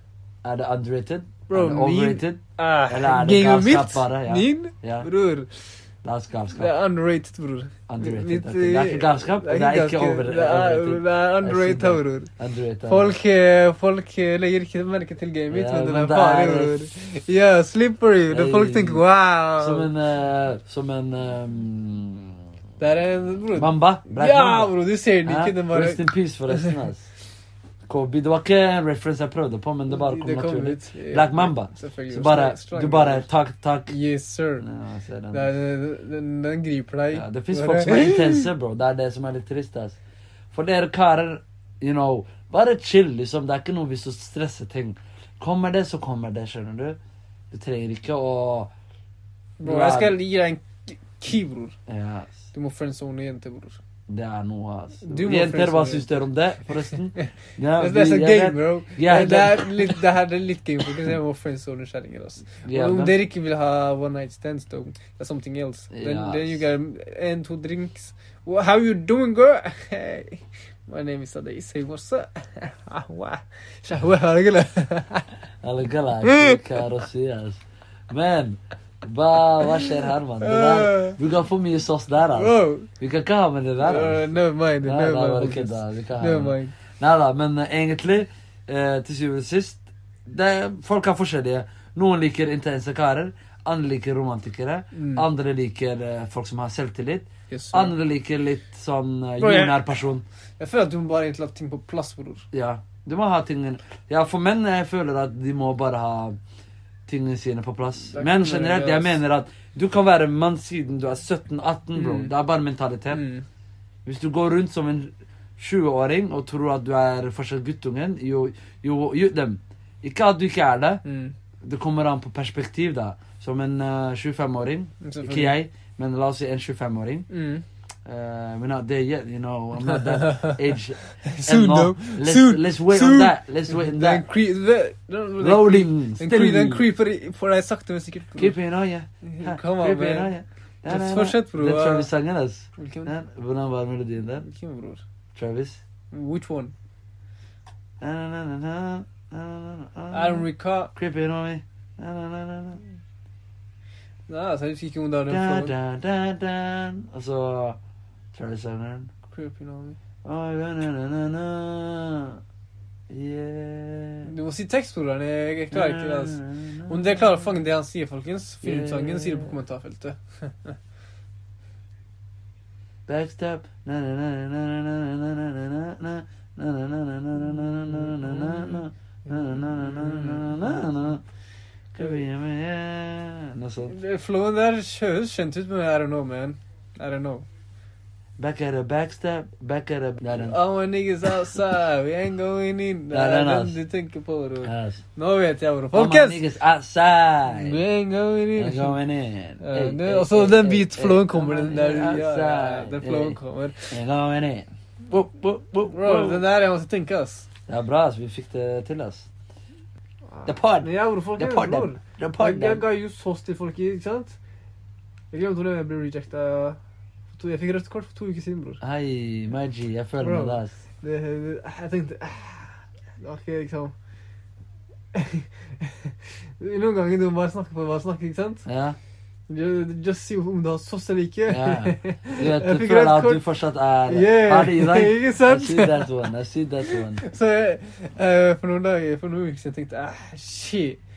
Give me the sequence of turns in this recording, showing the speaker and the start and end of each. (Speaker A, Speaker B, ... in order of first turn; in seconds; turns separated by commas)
Speaker A: 0.4-5.1, Speaker B: 1.5-5.5, Speaker A: 6.0-6.7, Speaker B: 6.5-12.3, Speaker A: 7.9-13.2, Speaker B: 12.9-19.9, Speaker A: 15.5-16.9, Speaker A: 18.3-19.0, Speaker A: 19.6-22.3, Speaker B: 22.8-26.8, Speaker A: 23.5-24.7, Speaker A: 25.2-27.1, Speaker A: 27.9-33.9, Speaker B: 29.9-33.2, Speaker B: 33.9-34.6, Speaker A: 34.6-35.5, Speaker B: 35.3-38.5, Speaker A: 37.1-40.0, Speaker A: 40.5-47.0, Speaker A: 47.5-48.7, Speaker B: 49.6-51.8, Speaker A: 49.6-50.1, Speaker A: 51.9-52.3, Speaker B: 52.5-53.8, Speaker A: 54.1-60.0, Speaker B: 55.0-56.1, Speaker B: 57.8-75.2, Speaker A: 62.6-63.2, Speaker A: 65.9-66.6, Speaker A: 75.6-84.2, Speaker B: 76.2-76.6, Speaker B: 79.6-81.2, Speaker B: 82.3-82.9, Speaker B: 83.8-86.7, Speaker A: 84.8-100.2, Speaker B: 94.9-95.2, Speaker B: 97.5-97.9, Speaker B: 99.4-99.8, Speaker B: 100.6-102.5, Speaker A: 102.5-106.4, Speaker A: 107.1-113.2, Speaker B: 108.1-109.2, Speaker B: 111.9-112.3, Speaker B: 113.1-113.4, Speaker A: 114.0-121.0, Speaker B: 121.0-121.3, Speaker A: 121.6-127.3, Speaker B: 125.0-125.5, Speaker B: 127.3-127.6, Speaker A: 128.1-134.2, Speaker B: 129.8-130.6, Speaker B: 131.2-138.6, Speaker A: 135.4-136.8, Speaker A: 138.4-144.4, Speaker B: 139.2-140.3, Speaker B: 140.9-142.1, Speaker B: 142.8-143.1, Speaker B: 144.4-145.0, Speaker A: 145.3-145.8, Speaker B: 146.1-146.7, Speaker A: 148.0-152.8, Speaker B: 150.1-150.9, Speaker B: 154.3-155.7, Speaker A: 155.3-157.8, Speaker A: 158.3-159.1, Speaker B: 159.3-160.0, Speaker A: 160.2-162.4, Speaker A: 163.1-164.3, Speaker B: 164.2-170.8, Speaker A: 165.7-167.5, Speaker A: 168.6-169.5, Speaker A: 173.1-181.2, Speaker B: 178.3-178.8, Speaker B: 179.9-180.6, Speaker A: 181.9-184.0, Speaker B: 183.9-187.4, Speaker A: 188.4-190.6, Speaker B: 190.3-196.4, Speaker A: 193.1-193.8, Speaker A: 194.6-195.0, Speaker A: 195.9-197.8, Speaker B: 197.5-199.0, Speaker A: 198.6-203.4, Speaker B: 199.6-204.0, Speaker A: 203.9-206.4, Speaker B: 205.9-207.5, Speaker A: 207.7-209.3, Speaker B: 210.3-214.4, Speaker A: 210.4-212.8, Speaker B: 215.3-216.8, Speaker B: 217.3-218.8, Speaker A: 218.8-220.8, Speaker B: 220.2-223.9, Speaker B: 225.1-228.6, Speaker A: 228.7-229.0, Speaker B: 229.5-233.4, Speaker A: 231.5-237.2, Speaker B: 234.1-236.1, Speaker B: 236.8-241.0